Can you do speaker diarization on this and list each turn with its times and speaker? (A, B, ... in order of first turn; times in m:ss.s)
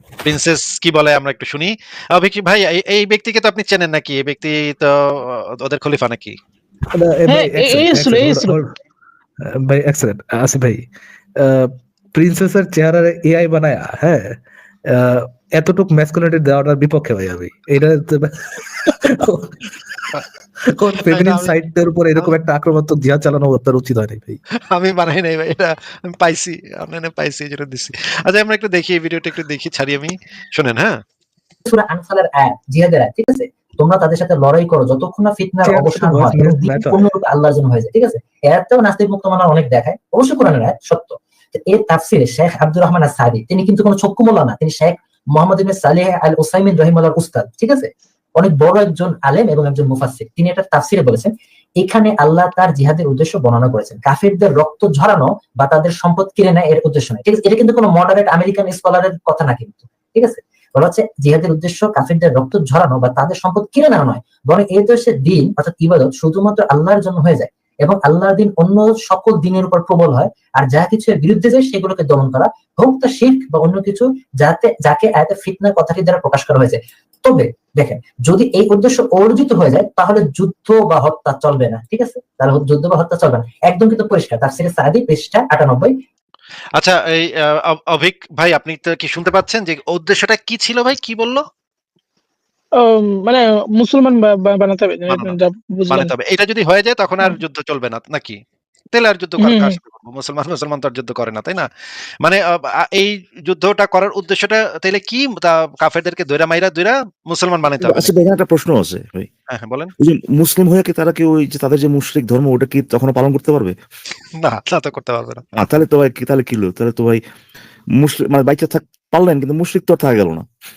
0:00.2-0:06.4 A
0:06.9-0:08.7 B
0:07.3-0:08.6 C
0:09.4-0:10.8 B
0:11.4-0:14.4 B
0:14.9-0:19.6 B
0:20.7-0:24.4 B
0:21.1-0:21.5 A
0:24.7-0:31.0 A
0:31.6-1:26.0 D
0:35.6-0:37.0 B
1:26.8-1:31.4 A
1:32.7-1:36.1 C
1:35.1-1:35.4 A
1:35.9-1:38.4 A
1:38.9-1:41.7 A
1:39.4-1:39.8 C
1:42.2-1:48.1 A
1:47.8-1:49.3 E
1:49.5-1:49.9 A
1:50.0-1:53.7 E
1:54.4-1:55.4 A
1:55.5-1:57.2 E
1:58.0-2:00.4 E